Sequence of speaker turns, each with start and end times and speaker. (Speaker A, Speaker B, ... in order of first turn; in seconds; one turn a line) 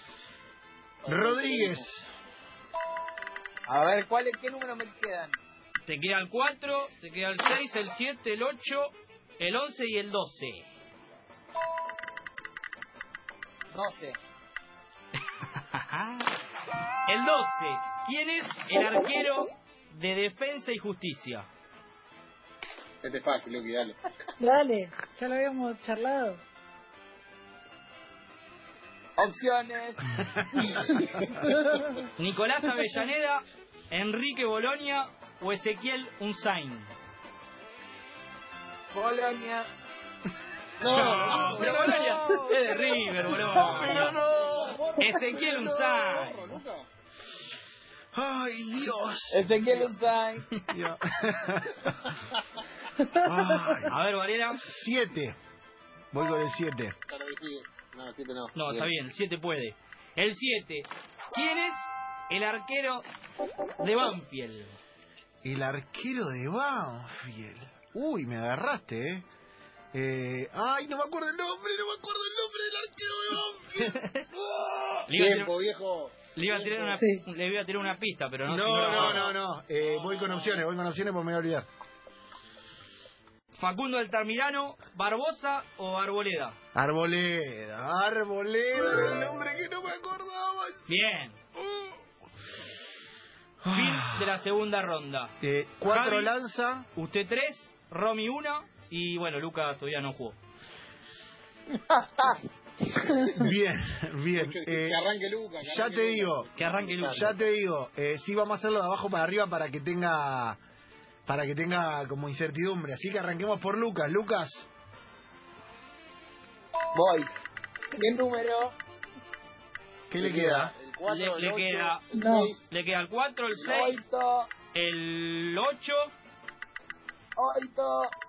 Speaker A: 1.0-1.8
Speaker B: 1.1-2.1
Speaker C: 3.7-5.4
Speaker D: 5.8-10.7
Speaker C: 13.7-14.2
Speaker D: 15.6-16.3
Speaker D: 17.1-21.5
Speaker A: 23.0-24.0
Speaker E: 24.4-26.4
Speaker C: 29.2-30.0
Speaker B: 30.3-30.7
Speaker E: 31.4-31.8
Speaker D: 32.2-36.9
Speaker C: 38.9-39.7
Speaker A: 40.8-41.7
Speaker C: 40.9-44.1
Speaker D: 40.9-44.1
Speaker B: 40.9-42.6
Speaker B: 43.5-45.7
Speaker A: 44.2-46.9
Speaker D: 45.0-46.5
Speaker B: 48.1-49.9
Speaker C: 49.3-50.5
Speaker B: 50.7-52.1
Speaker B: 53.0-54.0
Speaker D: 53.9-54.6
Speaker B: 54.6-55.4
Speaker B: 56.1-57.0
Speaker A: 57.1-58.9
Speaker D: 58.5-63.0
Speaker D: 63.8-64.8
Speaker B: 65.4-69.2
Speaker B: 69.9-75.1
Speaker D: 73.8-74.2
Speaker D: 75.1-75.5
Speaker A: 75.1-76.9
Speaker D: 76.3-79.2
Speaker E: 76.9-77.2
Speaker B: 78.5-81.7
Speaker A: 80.1-80.5
Speaker D: 83.5-86.6
Speaker B: 86.7-90.9
Speaker D: 90.9-91.4
Speaker B: 91.6-92.0
Speaker B: 93.6-94.4
Speaker D: 93.7-96.3
Speaker B: 95.4-96.9
Speaker D: 96.9-100.4
Speaker B: 103.2-105.0
Speaker A: 104.3-107.4
Speaker B: 105.6-106.5
Speaker D: 106.5-107.3
Speaker B: 107.1-110.6
Speaker B: 111.2-114.7
Speaker C: 116.9-117.3
Speaker C: 117.9-118.7
Speaker B: 120.1-120.7
Speaker A: 120.2-122.7
Speaker D: 121.0-122.0
Speaker E: 122.1-122.5
Speaker D: 122.7-124.0
Speaker C: 123.6-124.5
Speaker D: 124.7-126.1
Speaker C: 127.3-128.1